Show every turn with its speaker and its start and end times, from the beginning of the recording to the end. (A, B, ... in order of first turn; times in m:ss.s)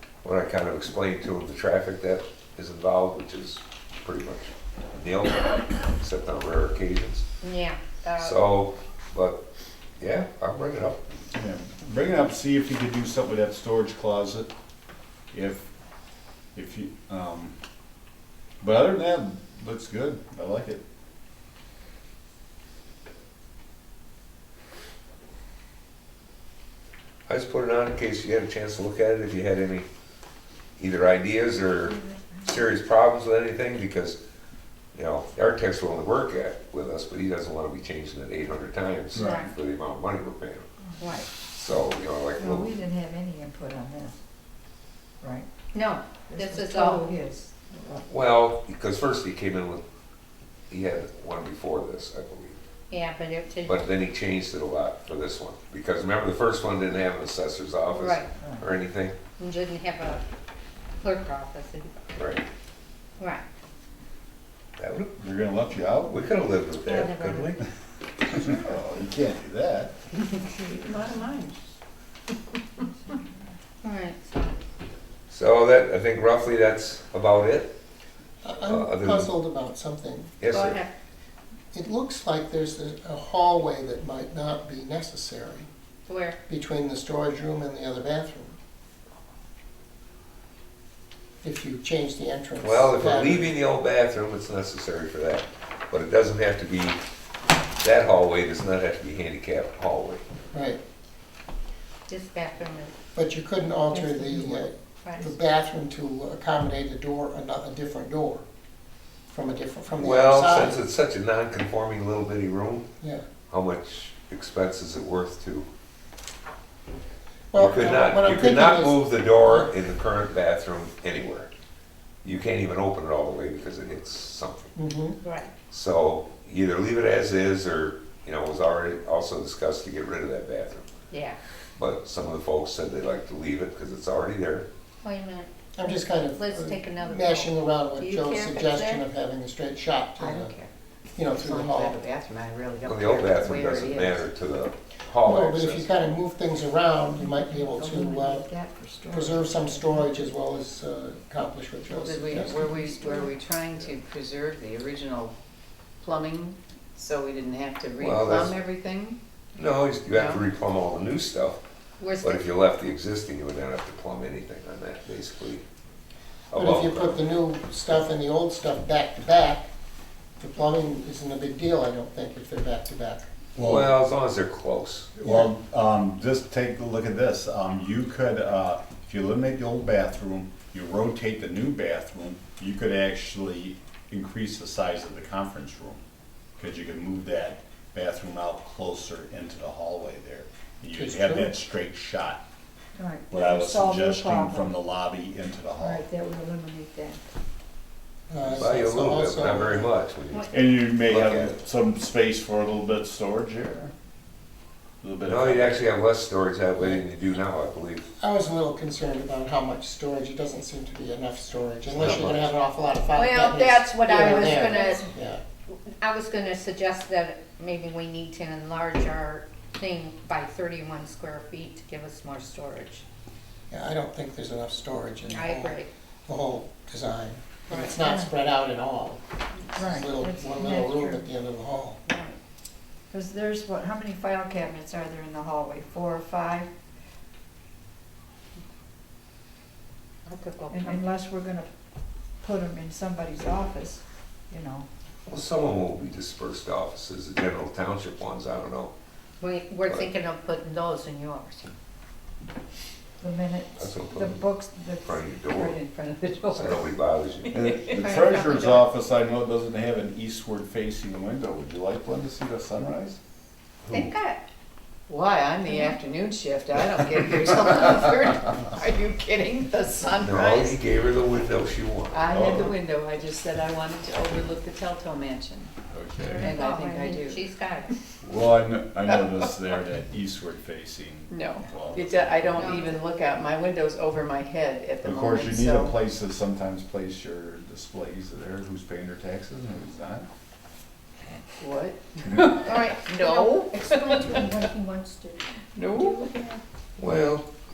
0:00.2-0:07.3 A
0:07.4-0:08.4 B
0:08.2-0:09.4 A
0:10.0-0:11.0 A
0:11.4-0:14.5 C
0:15.3-0:15.7 C
0:16.6-0:17.6 C
0:18.6-0:20.8 C
0:27.3-0:29.9 A
0:30.8-0:34.2 A
0:32.0-0:32.5 D
0:34.9-0:40.7 A
0:39.1-0:39.5 C
0:39.2-0:39.4 B
0:41.0-0:41.3 B
0:41.4-0:42.7 A
0:42.4-0:44.2 D
0:45.2-0:45.5 D
0:45.7-0:47.1 B
0:46.3-0:48.1 D
0:48.1-0:49.8 A
0:50.7-0:52.6 A
0:52.9-0:53.8 B
0:53.7-0:59.2 A
0:57.9-0:58.3 B
0:58.4-0:58.7 D
0:59.4-1:00.2 B
1:01.0-1:02.0 B
1:02.1-1:02.4 A
1:03.2-1:03.4 B
1:04.8-1:05.1 A
1:05.2-1:06.2 C
1:06.1-1:07.6 A
1:06.8-1:07.6 B
1:08.3-1:09.9 C
1:10.6-1:11.6 E
1:13.8-1:14.6 B
1:15.3-1:17.7 A
1:18.4-1:20.3 F
1:18.6-1:19.3 A
1:20.4-1:20.8 A
1:20.5-1:20.9 B
1:21.7-1:25.7 F
1:26.1-1:26.4 B
1:26.5-1:28.6 F
1:31.4-1:33.5 F
1:32.6-1:37.0 A
1:37.8-1:40.2 A
1:40.5-1:40.8 F
1:42.1-1:42.9 B
1:43.2-1:48.4 F
1:43.9-1:44.7 D
1:45.0-1:45.3 B
1:49.3-1:50.8 F
1:50.0-1:52.9 A
1:53.5-1:55.7 A
1:57.5-1:59.7 F
1:57.6-2:01.5 A
2:02.2-2:04.7 A
2:04.8-2:05.2 F
2:05.2-2:05.5 B
2:05.7-2:10.9 A
2:11.1-2:11.4 B
2:11.8-2:14.7 A
2:15.0-2:19.0 B
2:15.8-2:20.5 F
2:20.2-2:20.7 E
2:21.2-2:22.0 F
2:21.3-2:24.3 E
2:22.8-2:25.9 A
2:25.2-2:28.5 F
2:27.1-2:30.3 D
2:29.1-2:32.6 F
2:31.9-2:35.4 E
2:32.3-2:33.4 D
2:36.0-2:39.2 E
2:38.0-2:38.6 A
2:39.6-2:41.6 A
2:40.1-2:40.4 E
2:42.0-2:42.5 B
2:42.2-2:45.6 A
2:46.5-2:47.2 A
2:46.6-2:49.7 F
2:50.4-2:53.3 F
2:53.6-2:53.9 C
2:53.6-2:55.1 A
2:55.2-3:06.0 C
2:55.2-2:55.5 F
3:06.6-3:12.4 C
3:10.9-3:11.6 F
3:13.0-3:14.8 D
3:13.3-3:16.1 C
3:15.8-3:17.2 D
3:18.3-3:19.9 F
3:18.5-3:21.6 A
3:20.5-3:23.9 C
3:25.0-3:25.8 C
3:25.2-3:28.1 A
3:26.8-3:27.1 F
3:28.2-3:35.4 F
3:31.9-3:32.5 A
3:33.2-3:34.9 E
3:33.8-3:35.1 B
3:35.7-3:43.0 B
3:43.7-3:49.2 F
3:45.3-3:45.9 B
3:47.7-3:48.0 B
3:48.0-3:48.3 D
3:49.8-3:51.3 D
3:49.8-3:52.0 F
3:52.1-3:52.4 D
3:53.1-3:56.7 D
4:00.3-4:01.0 B
4:00.7-4:01.7 D
4:02.4-4:04.9 D
4:05.3-4:08.9 A
4:09.4-4:11.7 B
4:13.2-4:16.9 D
4:13.8-4:14.4 A
4:15.0-4:15.8 A
4:16.6-4:17.7 A
4:17.5-4:23.2 C
4:17.7-4:18.2 E
4:17.9-4:18.8 B
4:23.8-4:24.1 A
4:23.9-4:24.4 B
4:25.1-4:30.8 E
4:25.7-4:26.0 D
4:30.2-4:32.3 A
4:32.1-4:35.7 E
4:32.3-4:32.8 C
4:35.9-4:36.6 C
4:36.4-4:37.9 B
4:36.4-4:37.4 E
4:36.4-4:37.2 D
4:38.2-4:42.8 C
4:41.3-4:46.0 E
4:42.5-4:43.0 B
4:45.0-4:50.3 C
4:51.6-4:54.6 E
4:52.2-4:52.8 C
4:52.6-4:56.6 B
4:55.8-4:56.4 E
4:57.0-4:57.4 A